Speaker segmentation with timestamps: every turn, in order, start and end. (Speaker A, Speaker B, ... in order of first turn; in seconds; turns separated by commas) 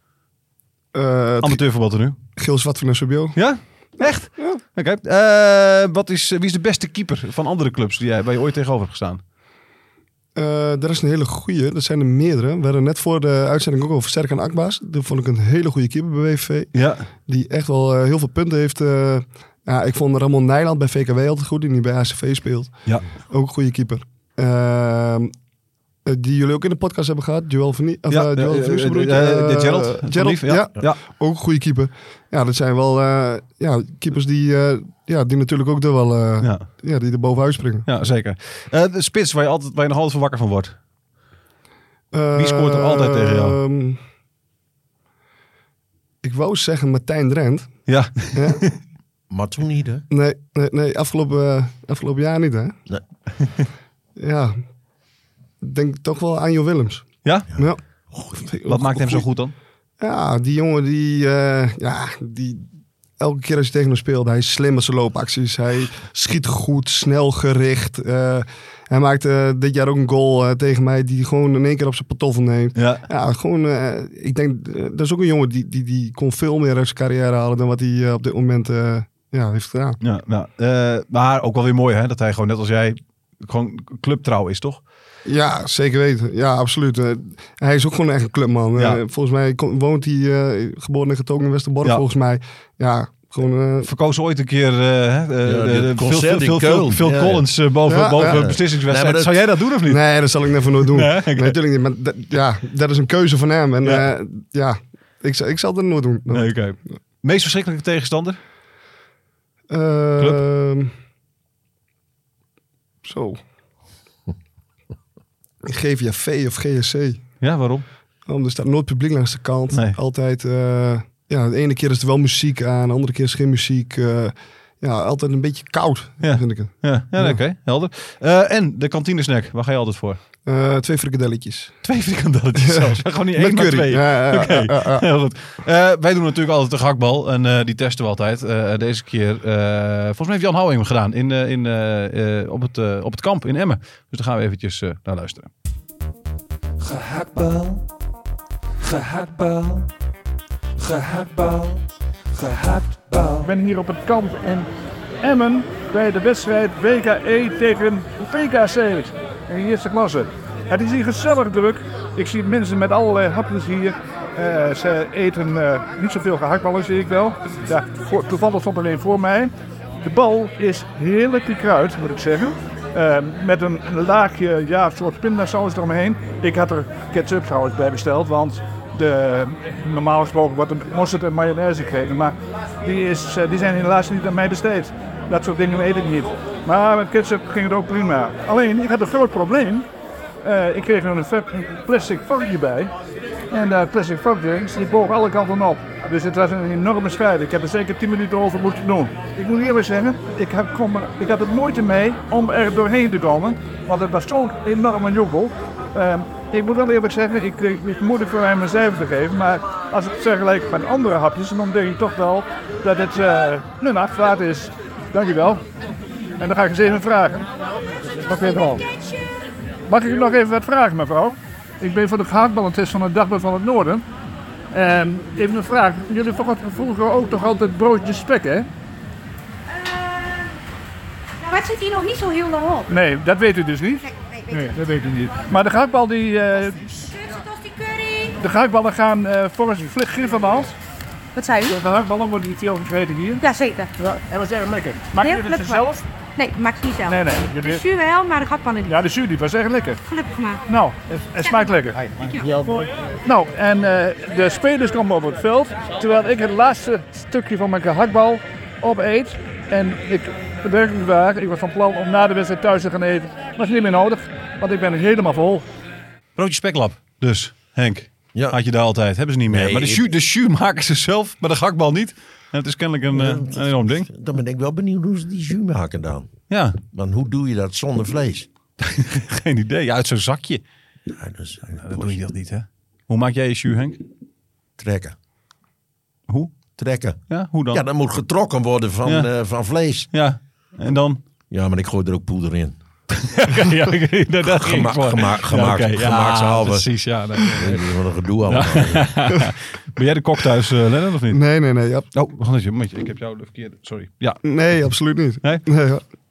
Speaker A: 0.9-1.6, Speaker B: 1.4-2.2, Speaker A: 2.4-3.4, Speaker B: 3.4-9.2, Speaker A: 4.0-4.6, Speaker A: 10.4-16.7, Speaker B: 16.8-17.1, Speaker A: 17.3-22.7, Speaker A: 23.3-25.3, Speaker A: 26.1-37.9, Speaker B: 28.1-31.0, Speaker B: 37.9-40.8, Speaker A: 42.1-44.0, Speaker B: 42.4-43.6, Speaker A: 46.2-47.7, Speaker B: 47.9-48.8, Speaker A: 48.3-48.6, Speaker C: 49.3-50.0, Speaker A: 50.1-52.8, Speaker A: 54.2-54.5, Speaker A: 55.6-57.8, Speaker C: 57.5-58.5, Speaker A: 58.4-59.2, Speaker B: 58.7-59.5, Speaker A: 60.0-62.7, Speaker A: 63.2-80.0, Speaker B: 72.8-73.0, Speaker B: 80.0-84.8, Speaker A: 85.3-93.9, Speaker B: 93.8-100.0, Speaker C: 95.4-97.5, Speaker A: 97.9-98.5, Speaker C: 98.1-99.4, Speaker A: 99.9-106.5, Speaker B: 100.9-101.6, Speaker B: 106.3-108.4, Speaker A: 109.7-110.9, Speaker A: 113.0-113.4, Speaker A: 115.7-117.2, Speaker B: 117.4-117.8, Speaker A: 118.3-127.4, Speaker B: 119.7-120.0, Speaker B: 126.2-130.2, Speaker A: 130.5-131.7, Speaker B: 131.8-145.5, Speaker A: 132.6-135.1, Speaker D: 146.8-147.8, Speaker D: 148.8-149.8, Speaker D: 150.8-151.8, Speaker D: 152.4-153.5, Speaker E: 153.4-154.7, Speaker E: 155.2-169.5, Speaker E: 170.0-189.9, Speaker E: 190.4-192.9, Speaker E: 193.5-215.6, Speaker E: 216.4-217.5, Speaker E: 218.0-218.9, Speaker E: 219.9-224.1, Speaker E: 224.7-228.7, Speaker F: 229.8-230.5, Speaker F: 231.4-232.9, Speaker E: 232.9-237.0, Speaker F: 234.1-234.7, Speaker F: 237.1-238.4, Speaker E: 238.4-240.8, Speaker F: 241.3-241.8, Speaker E: 241.7-243.4, Speaker F: 243.4-243.9, Speaker E: 244.0-246.1, Speaker F: 245.2-249.0, Speaker E: 247.1-247.8, Speaker E: 248.9-250.0, Speaker F: 250.1-250.6, Speaker E: 250.7-265.7, Speaker F: 251.4-252.6, Speaker B: 266.4-274.1, Speaker C: 269.5-270.0, Speaker C: 273.1-276.3, Speaker B: 276.5-276.8, Speaker C: 276.9-278.5, Speaker B: 278.8-280.6, Speaker C: 281.1-282.2, Speaker B: 281.8-284.0, Speaker C: 284.8-285.2, Speaker B: 286.3-286.6, Speaker C: 286.8-287.2, Speaker B: 287.3-287.8, Speaker C: 287.7-290.1, Speaker B: 290.1-291.2, Speaker C: 291.5-292.8, Speaker B: 293.1-297.9, Speaker C: 294.4-296.9, Speaker C: 297.4-299.3, Speaker B: 298.5-301.4, Speaker A: 301.3-302.1, Speaker B: 302.1-304.4, Speaker A: 304.4-306.0